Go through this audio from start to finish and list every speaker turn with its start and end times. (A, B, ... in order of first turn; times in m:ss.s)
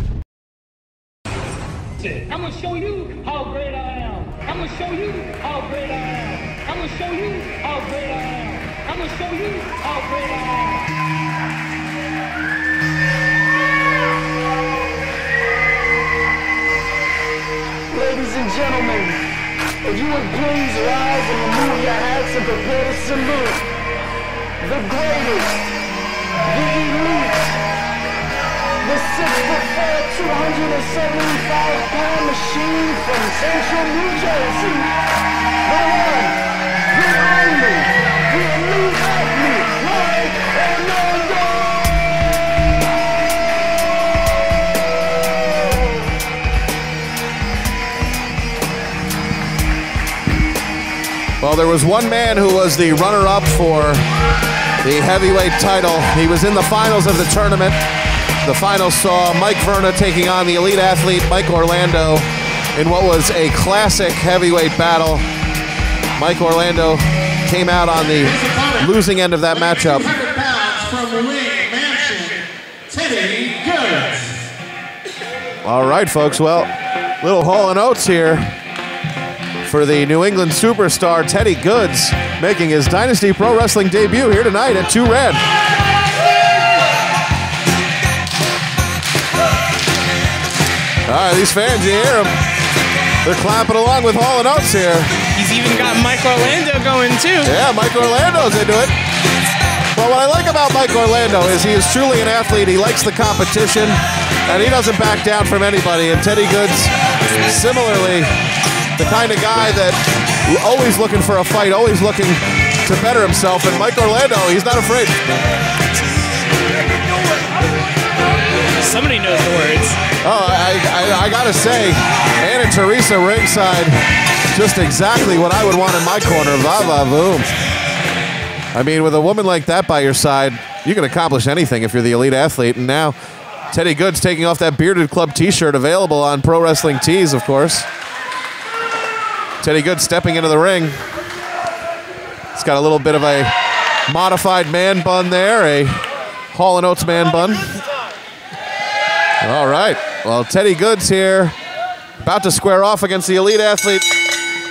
0:02.1-0:10.9 A
0:17.9-0:19.2 B
0:19.8-0:23.6 B
0:24.6-0:25.6 B
0:26.5-0:27.5 B
0:28.8-0:34.9 B
0:35.6-0:36.4 B
0:36.9-0:41.9 B
0:51.4-0:54.0 C
0:54.8-0:57.8 C
0:58.4-1:05.2 C
1:06.2-1:10.1 C
1:08.4-1:08.8 D
1:10.0-1:14.4 D
1:15.6-1:18.5 C
1:19.6-1:25.4 C
1:31.0-1:32.3 C
1:33.2-1:35.1 C
1:35.3-1:37.5 E
1:37.4-1:38.9 C
1:39.9-1:48.3 C
1:49.0-1:55.2 C
1:58.8-2:00.0 E
2:00.2-2:03.9 C
2:04.5-2:07.5 C
2:08.7-2:13.2 C
2:13.7-2:17.9 C
2:19.6-2:21.0 C
2:22.5-2:23.5 C
2:24.1-2:26.0 C
2:26.5-2:27.8 C
2:29.4-2:31.5 C
2:32.2-2:34.1 C